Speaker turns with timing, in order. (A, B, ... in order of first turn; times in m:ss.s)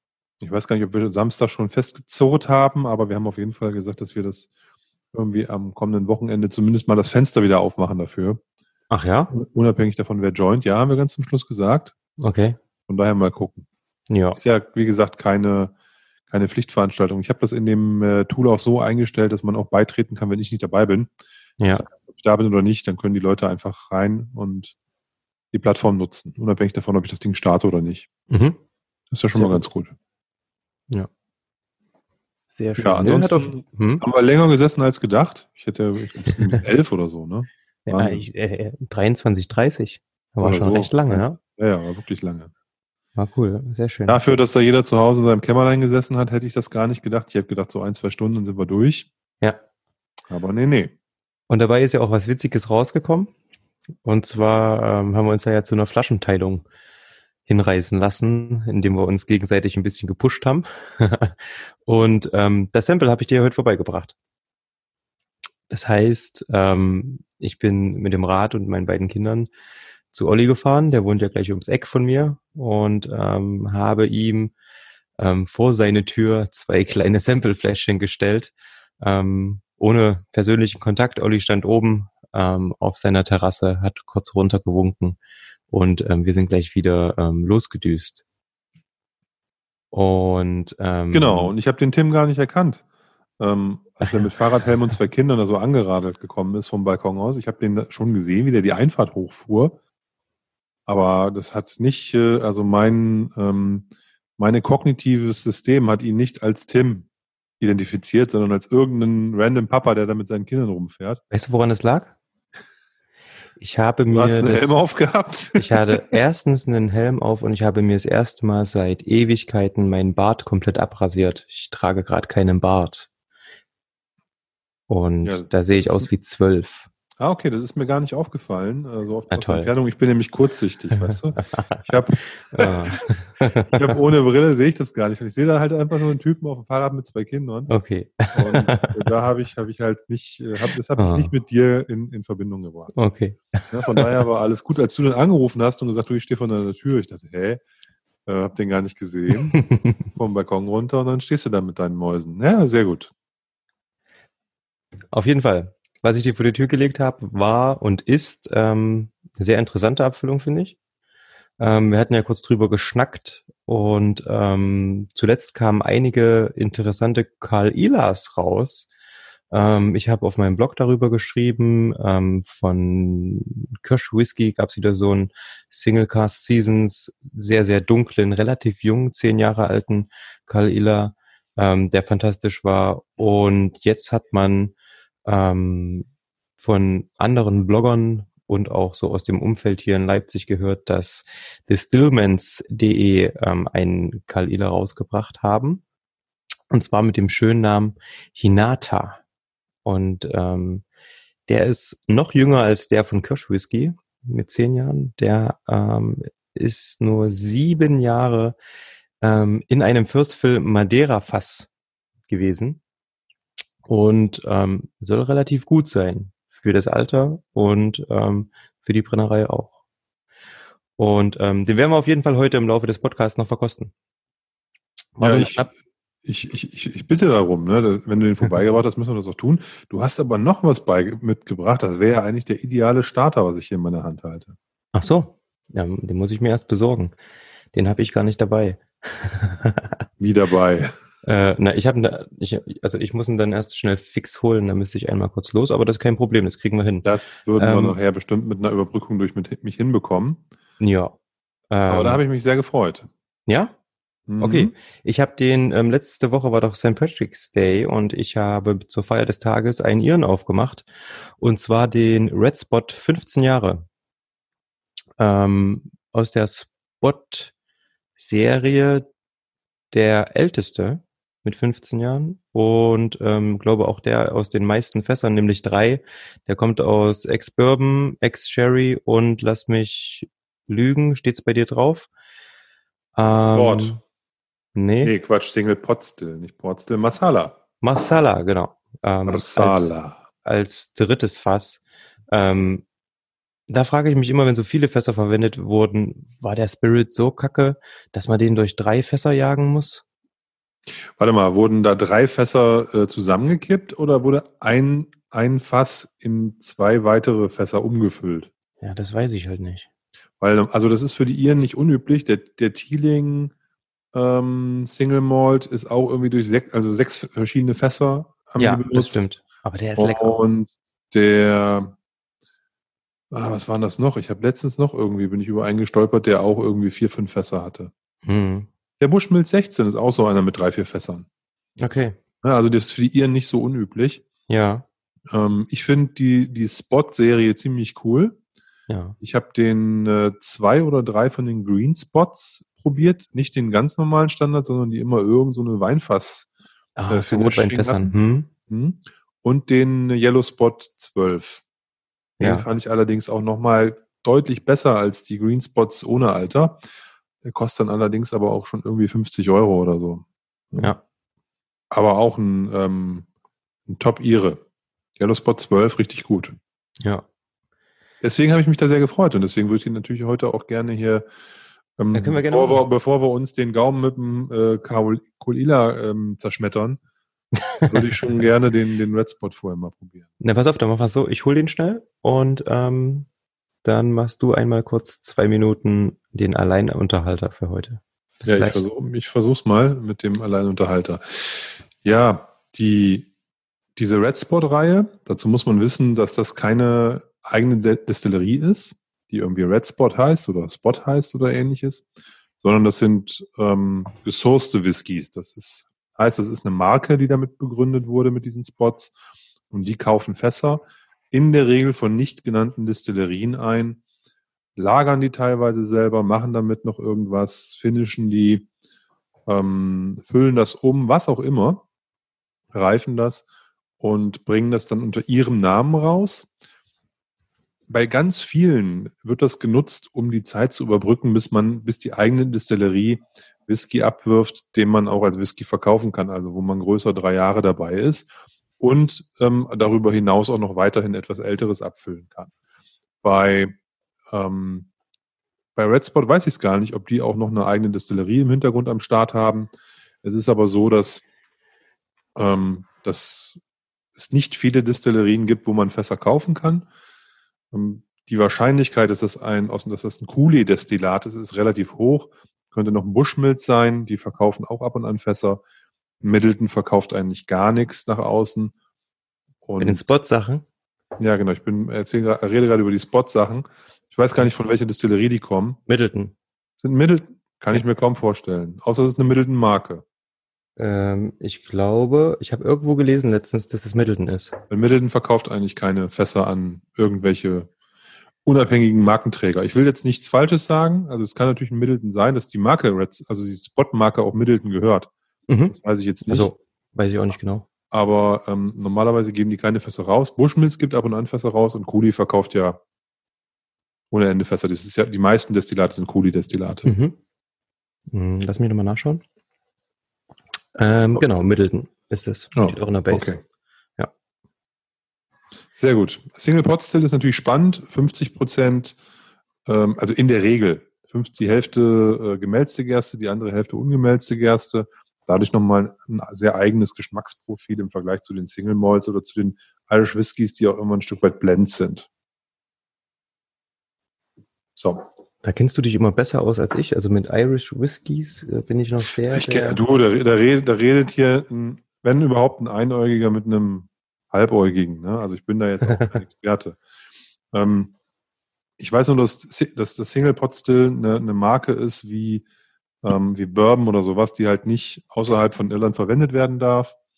0:00.4-0:04.5 A
0:05.1-0:08.4 A
0:08.9-0:09.3 B
0:09.3-0:11.9 A
0:12.2-0:12.6 B
0:12.9-0:13.7 A
0:14.1-0:14.4 B
0:14.3-0:15.7 A
0:16.3-0:21.1 A
0:21.7-0:24.7 A
0:25.5-0:28.1 A
0:28.3-0:28.6 B
0:29.1-0:29.9 A
0:29.3-0:29.6 B
0:32.5-0:34.0 B
0:32.8-0:38.2 A
0:37.9-0:41.4 B
0:40.4-0:42.5 A
0:43.2-0:44.2 B
0:44.1-0:49.1 A
0:50.3-0:50.9 A
0:51.5-0:53.3 B
0:54.0-0:56.6 B
0:57.5-1:04.1 B
1:05.7-1:09.5 B
1:10.1-1:14.5 B
1:15.2-1:25.2 B
1:25.7-1:28.2 B
1:29.9-1:31.5 B
1:31.1-1:32.8 A
1:33.4-1:39.8 A
1:40.9-1:47.1 A
1:47.6-1:51.2 A
1:51.3-1:52.1 B
1:53.6-1:54.7 B
1:54.1-1:56.1 A
1:55.6-2:03.1 B
2:04.9-2:06.8 B
2:05.2-2:06.1 A
2:07.2-2:13.0 A
2:09.3-2:09.7 B
2:11.1-2:11.8 B
2:12.5-2:13.9 B
2:13.7-2:17.7 A
2:17.7-2:19.1 B
2:18.3-2:22.9 A
2:21.0-2:21.3 B
2:22.9-2:24.1 B
2:23.7-2:27.6 A
2:28.2-2:33.1 A
2:29.5-2:30.0 B
2:35.1-2:40.8 B
2:41.6-2:48.9 B
2:49.5-3:04.7 B
3:05.2-3:06.1 B
3:06.6-3:15.8 B
3:16.7-3:19.2 B
3:19.8-3:20.8 B
3:21.5-3:28.6 B
3:29.2-3:31.7 B
3:32.3-3:32.8 B
3:33.8-3:39.8 B
3:41.0-3:43.9 B
3:45.2-3:45.6 B
3:45.2-3:54.6 A
3:54.9-3:57.1 B
3:57.7-4:00.0 B
4:00.2-4:00.9 A
4:01.2-4:08.0 B
4:07.0-4:10.4 A
4:10.8-4:11.1 B
4:11.7-4:12.2 B
4:11.9-4:13.1 A
4:13.5-4:13.7 B
4:14.3-4:14.7 A
4:14.4-4:23.8 B
4:25.2-4:27.5 B
4:28.2-4:29.0 B
4:29.9-4:42.1 B
4:43.2-4:44.0 B
4:43.5-4:44.0 A
4:44.7-4:45.1 B
4:45.0-4:47.6 A
4:47.8-4:49.9 B
4:49.3-4:50.2 A
4:50.4-4:52.8 B
4:53.7-5:00.0 B
5:01.2-5:08.5 A
5:08.8-5:09.9 B
5:10.4-5:13.5 A
5:14.1-5:19.2 A
5:18.6-5:20.4 B
5:20.0-5:21.9 A
5:23.3-5:27.9 A
5:28.2-5:28.7 B
5:29.0-5:31.3 A
5:31.8-5:32.2 B
5:32.4-5:34.2 A
5:34.5-5:34.8 B
5:35.3-5:38.4 A
5:38.9-5:39.2 B
5:39.2-5:46.5 A
5:47.0-5:48.5 B
5:47.1-5:48.1 A
5:48.7-5:51.6 A
5:52.4-5:52.6 B
5:52.4-5:56.8 A
5:57.4-6:01.0 A
6:01.9-6:03.3 A
6:03.9-6:04.6 A
6:05.2-6:06.5 A
6:07.0-6:07.2 B
6:08.2-6:11.2 A
6:12.0-6:17.0 A
6:12.1-6:12.8 B
6:17.6-6:18.0 B
6:17.9-6:20.2 A
6:20.4-6:23.3 B
6:23.8-6:28.8 B
6:28.4-6:33.3 A
6:34.0-6:42.0 A
6:42.6-6:49.1 A
6:49.7-6:54.0 A
6:54.8-6:58.6 A
6:59.5-7:01.8 A
7:02.7-7:03.4 A
7:04.0-7:06.5 A
7:07.9-7:22.5 A
7:23.2-7:23.7 A
7:24.3-7:24.9 A
7:25.8-7:29.7 A
7:30.2-7:31.2 A
7:32.4-7:33.6 A
7:34.2-7:36.8 A
7:37.7-7:45.6 A
7:46.2-7:48.7 A
7:49.6-7:50.0 A
7:49.8-7:50.6 B
7:51.2-7:55.8 A
7:55.9-7:56.3 B
7:56.8-8:00.0 A
8:00.8-8:04.6 B
8:04.7-8:07.7 A
8:08.4-8:15.1 A
8:15.5-8:15.7 B
8:15.7-8:16.5 A
8:16.3-8:17.6 B
8:17.9-8:22.8 A
8:24.1-8:26.9 A
8:26.8-8:27.2 B
8:28.1-8:29.2 B
8:30.7-8:33.4 B
8:32.5-8:33.4 A
8:35.7-8:39.0 A
8:39.6-8:52.1 A
8:54.8-8:55.0 A
8:55.4-8:59.8 B
8:59.3-9:06.8 A
9:05.9-9:06.2 B
9:07.5-9:07.9 A
9:08.8-9:12.4 A
9:13.0-9:16.9 A